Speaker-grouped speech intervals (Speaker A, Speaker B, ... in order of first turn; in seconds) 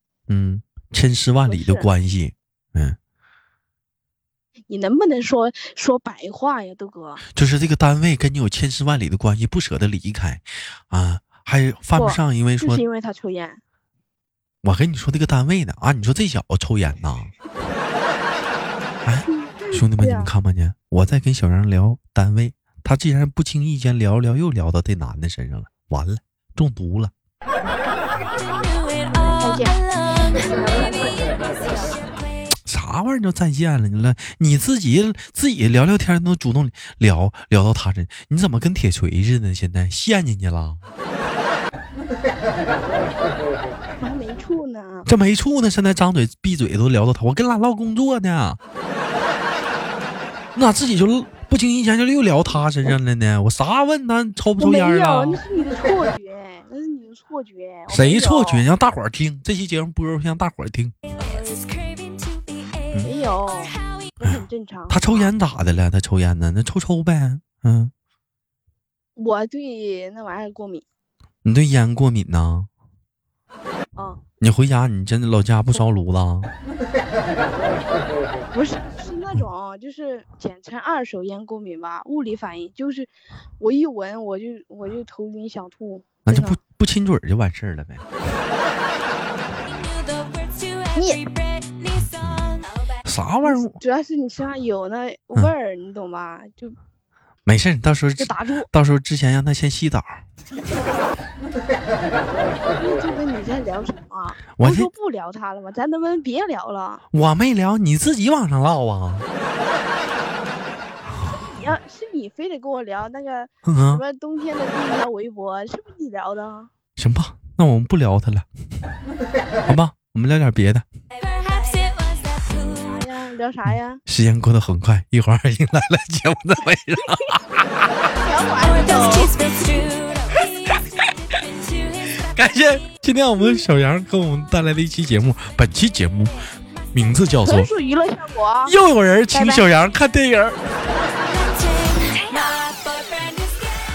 Speaker A: 0.3-3.0, 7.3-12.8, 14.6-17.3, 19.1-27.1, 32.7-40.8, 45.1-48.6, 50.5-55.4, 57.9-61.0, 64.2-67.9, 71.4-72.7, 74.4-76.5, 86.3-88.1, 91.9-92.5, 93.1-93.8, 97.5-100.2, 104.6-104.9, 107.1-109.3, 113.7-114.0, 117.0-118.5, 119.7-120.8, 124.1-127.7, 132.2-137.7, 138.7-140.6
Speaker B: 1.5-1.9, 4.7-7.2, 12.0-13.6, 19.3-20.3, 29.3-32.0, 44.0-45.1, 54.6-58.7, 63.0-65.3, 69.2-70.9, 74.0-74.2, 78.5-86.6, 90.9-91.2, 93.4-96.8, 98.2-98.7, 102.8-107.0, 111.3-116.7, 122.3-124.0, 128.2-129.4, 137.4-138.8, 139.3-139.7
Speaker C: 129.3-130.2, 142.1-143.3